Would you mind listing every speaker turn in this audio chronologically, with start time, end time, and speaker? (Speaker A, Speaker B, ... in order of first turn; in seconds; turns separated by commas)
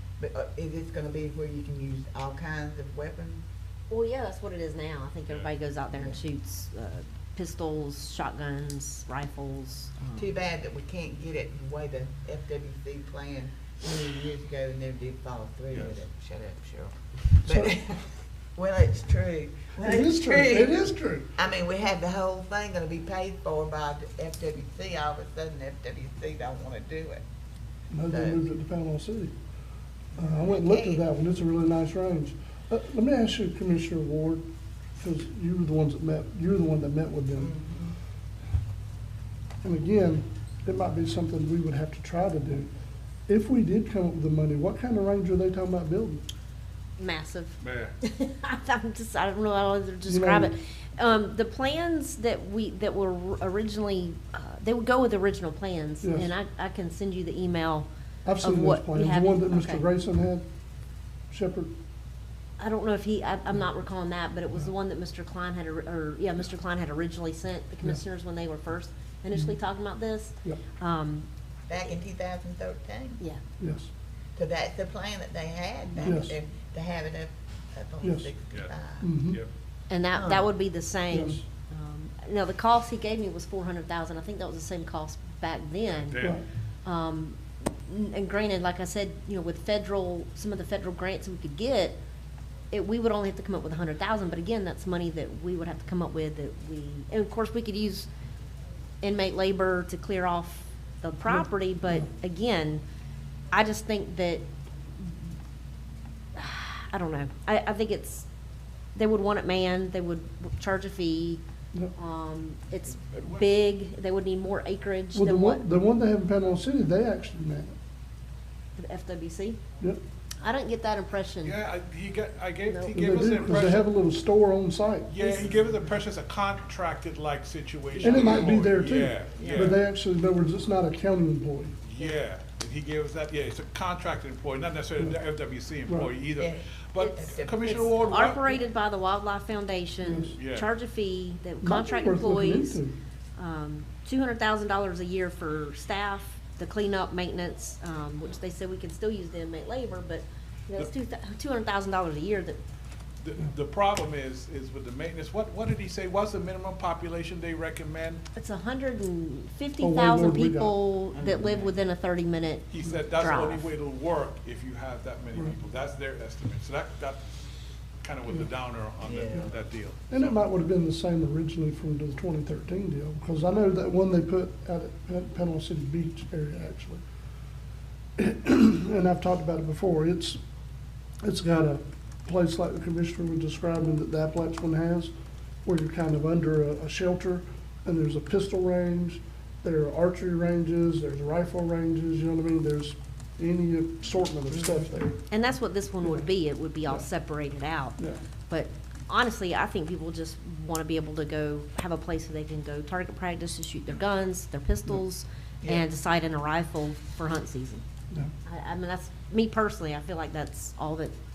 Speaker A: 0.2-3.4, Speaker B: 3.9-9.9, Speaker A: 10.2-20.8, Speaker C: 17.4-17.8, Speaker C: 19.8-21.3, Speaker A: 21.3-27.2, Speaker C: 27.9-29.3, Speaker A: 28.1-28.4, Speaker A: 30.1-31.0, Speaker C: 30.1-34.4, Speaker C: 35.0-37.5, Speaker A: 37.4-38.0, Speaker C: 39.6-42.7, Speaker C: 43.3-46.2, Speaker B: 47.0-57.9, Speaker D: 47.6-47.9, Speaker C: 50.0-50.5, Speaker C: 56.0-56.3, Speaker C: 58.2-60.4, Speaker B: 58.4-59.8, Speaker C: 61.3-61.7, Speaker B: 62.6-71.3, Speaker A: 71.7-73.2, Speaker C: 73.6-73.9, Speaker A: 74.3-79.1, Speaker C: 76.0-76.4, Speaker C: 78.0-78.3, Speaker C: 79.0-79.4, Speaker B: 79.9-86.3, Speaker A: 80.1-80.5, Speaker C: 81.1-81.4, Speaker D: 86.0-86.4, Speaker B: 86.8-92.0, Speaker B: 92.7-98.1, Speaker B: 99.0-102.8, Speaker C: 101.3-102.0, Speaker B: 103.5-104.4, Speaker B: 105.0-105.2, Speaker B: 106.3-108.3, Speaker B: 108.9-111.4, Speaker B: 111.9-115.6, Speaker C: 115.1-117.7, Speaker B: 118.8-119.6, Speaker B: 120.4-121.6, Speaker D: 121.4-123.8, Speaker B: 122.7-123.7, Speaker C: 122.9-125.1, Speaker D: 125.1-129.8, Speaker C: 128.0-131.8, Speaker A: 129.4-129.7, Speaker D: 131.8-138.5, Speaker C: 135.8-136.2, Speaker A: 136.4-138.3, Speaker B: 138.0-142.8, Speaker C: 140.0-140.3, Speaker D: 140.3-140.7, Speaker C: 141.6-142.9, Speaker B: 143.3-152.6, Speaker D: 153.2-158.2, Speaker B: 158.3-163.6, Speaker C: 159.8-160.8, Speaker A: 161.1-161.8, Speaker D: 162.7-167.2, Speaker D: 168.0-170.0, Speaker A: 169.0-169.5, Speaker C: 170.1-177.0, Speaker C: 178.2-180.4, Speaker C: 181.2-185.1, Speaker C: 185.6-195.2, Speaker B: 195.3-207.8, Speaker C: 196.0-196.3, Speaker B: 208.4-211.1